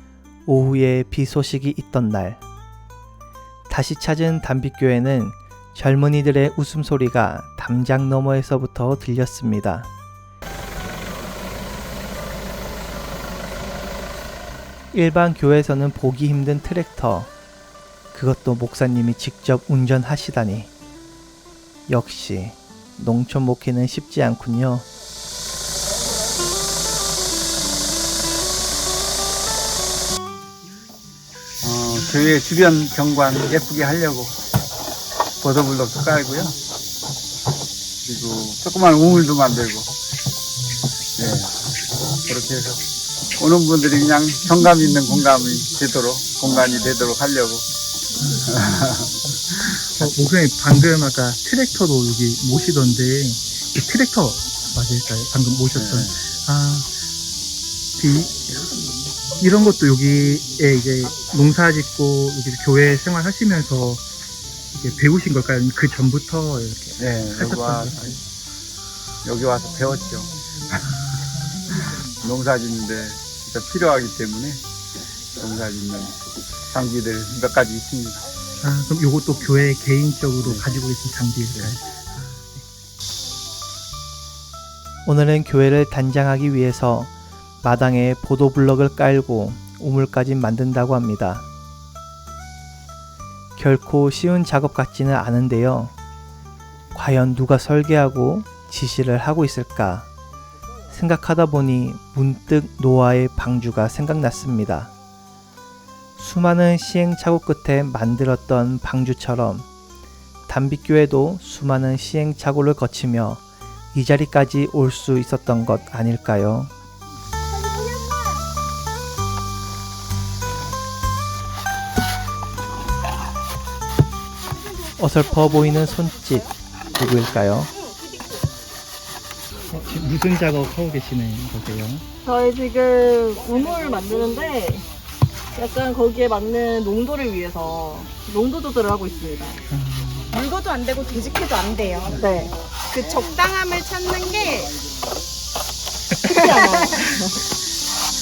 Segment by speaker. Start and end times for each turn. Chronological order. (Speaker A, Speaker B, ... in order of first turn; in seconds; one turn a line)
Speaker A: 0.5-2.4
Speaker A: 3.7-9.9
Speaker A: 14.9-17.3
Speaker A: 18.1-20.7
Speaker A: 21.9-24.9
Speaker B: 31.6-34.4
Speaker B: 35.4-36.5
Speaker B: 38.0-39.9
Speaker B: 41.2-42.8
Speaker B: 43.4-47.6
Speaker B: 48.3-49.2
Speaker C: 49.8-56.9
Speaker B: 55.8-56.2
Speaker C: 58.0-64.0
Speaker C: 64.7-68.2
Speaker B: 67.0-68.1
Speaker B: 69.2-71.0
Speaker B: 71.7-74.6
Speaker B: 75.3-76.2
Speaker B: 76.7-78.3
Speaker C: 78.6-82.0
Speaker A: 85.0-91.5
Speaker A: 93.6-95.9
Speaker A: 96.9-100.1
Speaker A: 100.9-104.9
Speaker A: 106.2-109.7
Speaker A: 110.5-113.4
Speaker A: 113.9-116.7
Speaker D: 117.6-118.3
Speaker A: 125.0-127.7
Speaker C: 129.7-132.1
Speaker E: 132.2-134.9
Speaker E: 135.5-139.6
Speaker C: 139.7-140.5
Speaker D: 140.5-142.1
Speaker E: 142.1-142.6
Speaker D: 142.9-144.8
Speaker C: 146.2-147.2
Speaker E: 146.2-147.4